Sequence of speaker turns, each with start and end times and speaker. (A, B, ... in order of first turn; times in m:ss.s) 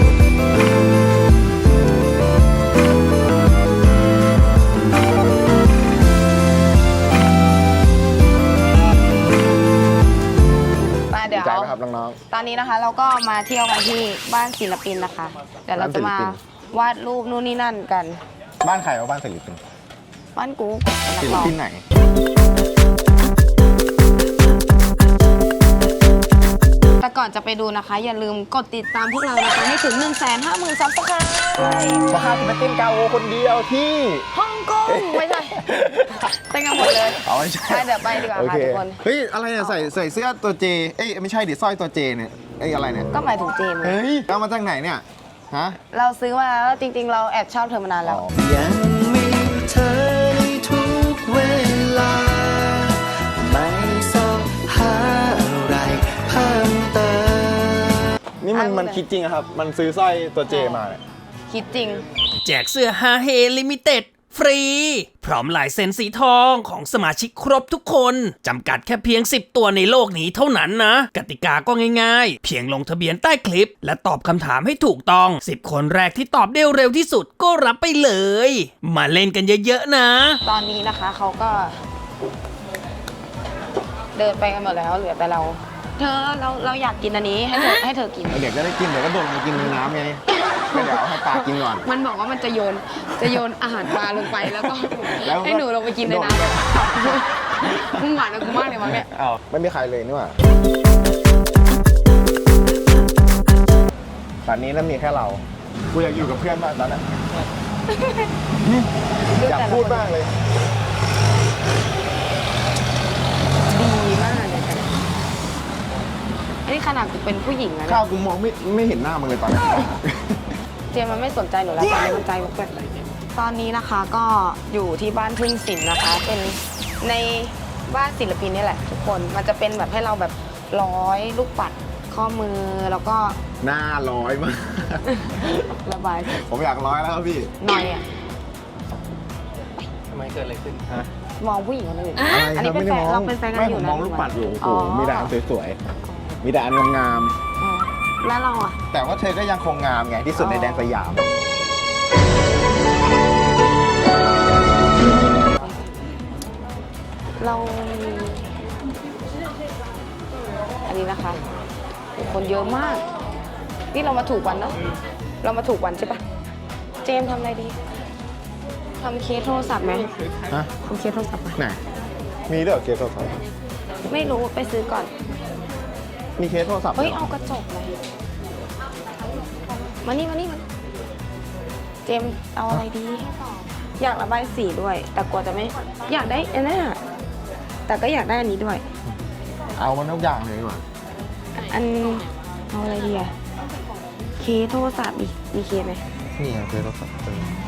0:11.1-0:11.8 A
0:11.3-0:12.2 B
0:12.3-0:18.2 A
0:15.7-0:16.4 B
0:18.6-0:19.6 B
0:20.3-0:21.6 A
0:21.2-0:21.8 B
0:27.0-0:32.1 A
0:32.1-0:34.3 B
0:34.3-0:35.7 A
0:34.8-0:43.1 B
0:36.2-0:39.0 A
0:39.6-0:39.9 A
0:43.1-0:44.0 A
0:43.8-0:45.8 B
0:45.9-0:48.3 A
0:48.0-0:48.4 B
0:48.4-0:58.1 C
0:58.4-1:01.0 B
0:58.5-0:59.0 A
1:00.4-1:00.9 A
1:01.5-1:02.0 A
1:02.4-1:20.4 D
1:20.4-1:21.8 A
1:24.1-1:28.4 A
1:28.3-1:31.9 B
1:30.5-1:39.1 A
1:34.2-1:40.4 B
1:44.4-1:47.1 B
1:47.9-1:48.3 A
1:48.6-1:50.3 B
1:49.3-1:50.2 A
1:53.6-1:55.0 A
1:56.6-1:58.0 A
1:57.8-2:00.6 B
2:00.9-2:02.8 A
2:03.3-2:13.4 A
2:13.6-2:15.7 B
2:15.0-2:16.5 A
2:16.4-2:17.5 B
2:17.6-2:18.0 A
2:20.2-2:21.1 B
2:21.4-2:25.3 A
2:22.2-2:25.8 B
2:26.0-2:26.4 A
2:26.4-2:27.4 B
2:27.6-2:28.8 A
2:28.9-2:31.3 B
2:30.4-2:31.0 A
2:35.4-2:35.7 A
2:37.4-2:38.5 A
2:40.8-2:41.4 A
2:42.1-2:43.0 A
2:43.9-2:44.8 A
2:45.4-2:46.2 A
2:47.0-2:47.8 A
2:49.0-2:50.1 A
2:50.8-2:51.6 A
2:52.5-2:53.4 B
2:54.1-2:55.1 A
2:56.4-2:57.3 B
2:56.9-2:58.0 A
3:00.0-3:00.6 A
3:02.0-3:07.0 A
3:07.9-3:08.8 A
3:09.8-3:10.8 B
3:11.6-3:13.3 A
3:14.4-3:16.0 A
3:16.4-3:17.5 B